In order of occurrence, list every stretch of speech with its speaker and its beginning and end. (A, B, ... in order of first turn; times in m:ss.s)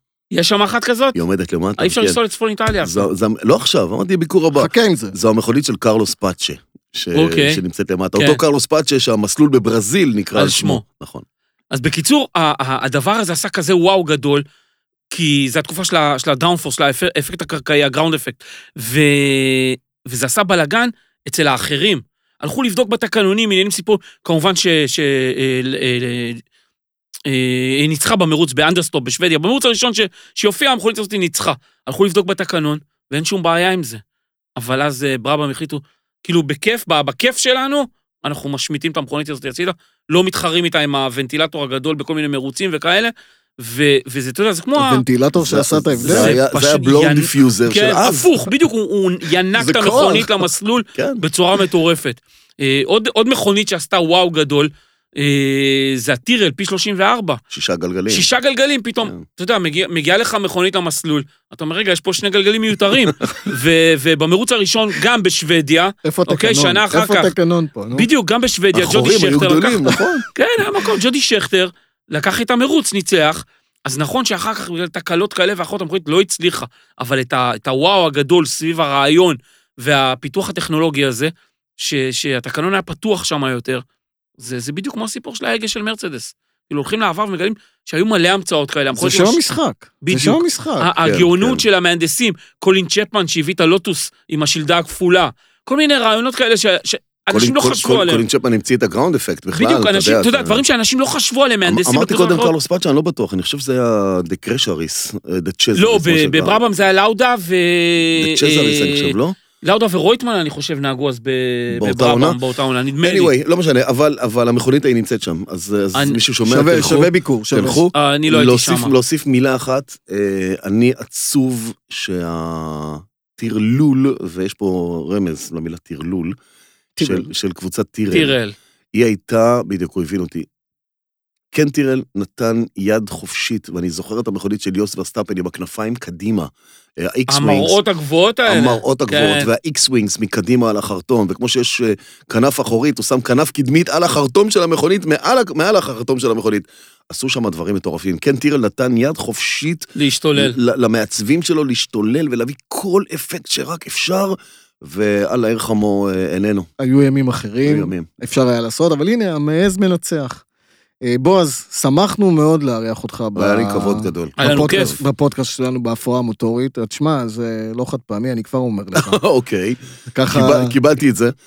0:00.3-0:01.2 A
0:01.2-0:02.2 B
0:01.8-0:03.1 A
0:02.8-0:11.2 B
0:04.6-0:05.2 C
0:07.2-0:07.6 A
0:10.4-0:10.8 A
0:11.7-0:14.4 A
0:15.1-0:26.4 A
0:27.3-0:34.0 A
0:34.6-0:45.0 A
0:44.8-0:46.4 C
0:45.4-0:48.3 B
0:46.0-0:57.4 A
0:49.6-0:50.4 C
0:51.0-0:51.2 B
0:57.5-0:58.3 B
0:58.1-1:07.3 A
1:02.9-1:03.5 B
1:06.0-1:08.1 C
1:07.9-1:23.8 A
1:08.7-1:10.2 B
1:24.4-1:29.4 A
1:29.0-1:30.9 C
1:30.0-1:38.2 A
1:31.0-1:31.6 B
1:37.3-1:40.6 B
1:39.5-1:42.5 A
1:41.7-1:46.6 B
1:45.8-1:53.3 A
1:48.2-1:49.4 B
1:51.7-1:52.4 B
1:53.0-2:06.4 B
1:56.0-1:56.2 A
1:56.4-1:57.9 C
1:57.9-1:58.9 A
2:07.0-2:07.3 C
2:07.0-2:08.4 B
2:08.1-2:08.6 A
2:08.9-2:10.5 B
2:11.5-2:17.8 B
2:17.3-2:19.5 A
2:18.5-2:36.7 B
2:30.0-2:30.6 A
2:36.8-2:40.4 C
2:37.6-2:38.1 B
2:41.0-2:49.2 C
2:43.4-2:45.0 B
2:44.4-2:45.0 A
2:49.0-2:51.4 B
2:50.1-2:50.8 C